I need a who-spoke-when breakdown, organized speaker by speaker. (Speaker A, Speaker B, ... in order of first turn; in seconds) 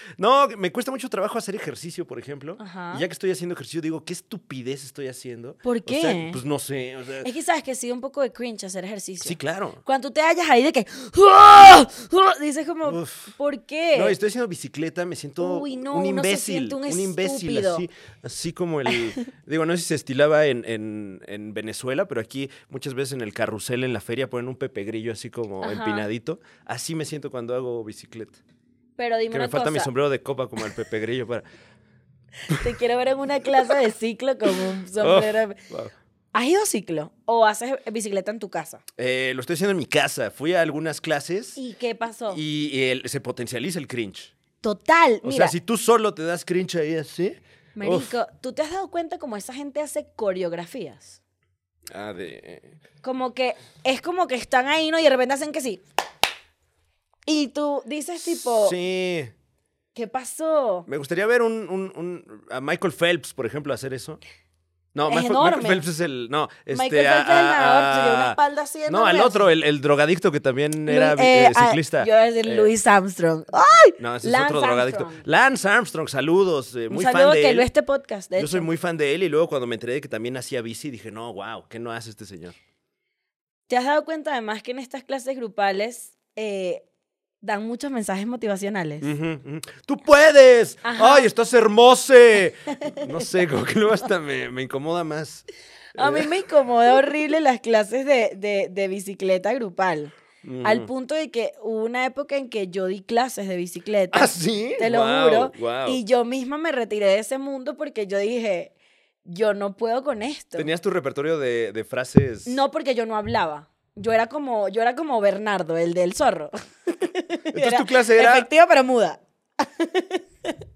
Speaker A: 0.2-7.3, 9.2-9.8, 12.8-13.3, 13.9-28.4, 29.3-31.4, 35.0-35.9, 39.0-41.6, 42.3-44.3, 45.2-48.1, 51.9-52.8, 58.2-59.3, 60.9-64.2, 64.9-72.7, 74.0-77.7, 78.4-82.6, 89.0-95.5, 96.0-96.3, 100.4-100.9, 104.1-106.0, 110.6-112.6, 117.5-118.5
Speaker B: 2.6-3.1, 5.6-6.4, 7.2-14.2, 15.4-17.9, 25.6-26.1, 29.0-29.9, 32.5-35.6, 36.3-38.8, 41.6-42.4, 44.6-45.5, 47.8-51.2, 53.0-55.8, 57.3-58.8, 60.0-60.9, 65.1-65.8, 66.7-69.5, 70.9-75.2, 76.9-78.7, 83.7-86.8, 87.4-89.1, 90.8-91.3, 92.9-93.3, 96.0-108.7, 109.2-110.7, 112.5-120.6